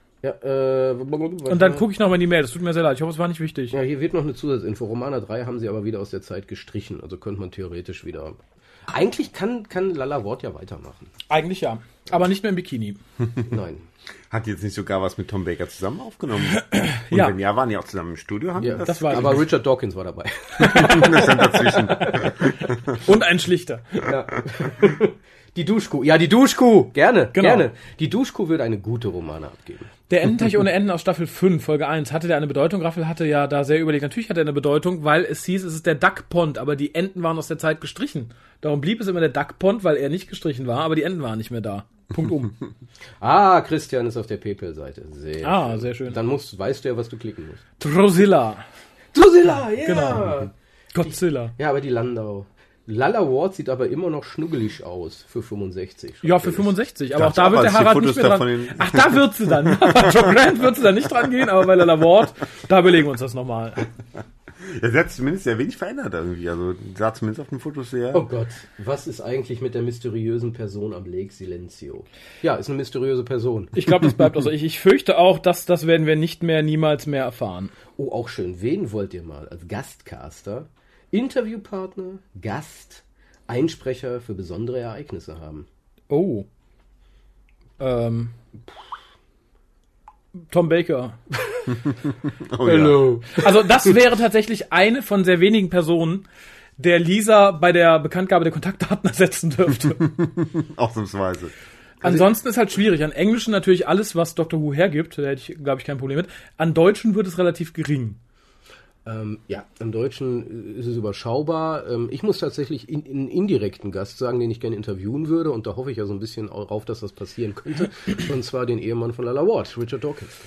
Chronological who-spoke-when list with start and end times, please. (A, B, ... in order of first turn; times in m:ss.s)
0:00.2-0:01.9 A
0:01.5-0:03.8 B
0:03.7-0:11.1 A
0:11.3-0:13.0 B
0:13.5-0:13.8 A
0:14.3-0:19.5 C
0:16.6-0:17.4 B
0:18.6-0:22.3 A
0:18.9-0:19.4 B
0:20.6-0:23.0 C
0:22.0-0:24.0 B
0:24.0-0:29.9 A
0:27.3-0:27.7 B
0:30.1-0:42.5 B
0:43.2-0:47.6 A
0:45.4-0:46.2 B
0:47.8-0:48.6 B
0:49.1-0:50.5 A
0:49.8-0:50.4 B
0:50.9-0:51.5 B
0:51.0-0:56.7 A
0:56.2-1:03.9 B
0:57.1-1:00.4 C
1:04.6-1:08.3 C
1:08.1-1:13.9 A
1:13.8-1:17.7 B
1:18.0-1:25.7 A
1:26.1-1:26.5 B
1:27.8-1:28.4 B
1:30.5-1:31.7 B
1:31.9-1:33.2 C
1:32.6-1:33.5 A
1:33.3-1:36.2 B
1:36.8-1:40.1 B
1:40.0-1:41.5 C
1:42.0-1:48.2 B
1:49.0-2:00.4 A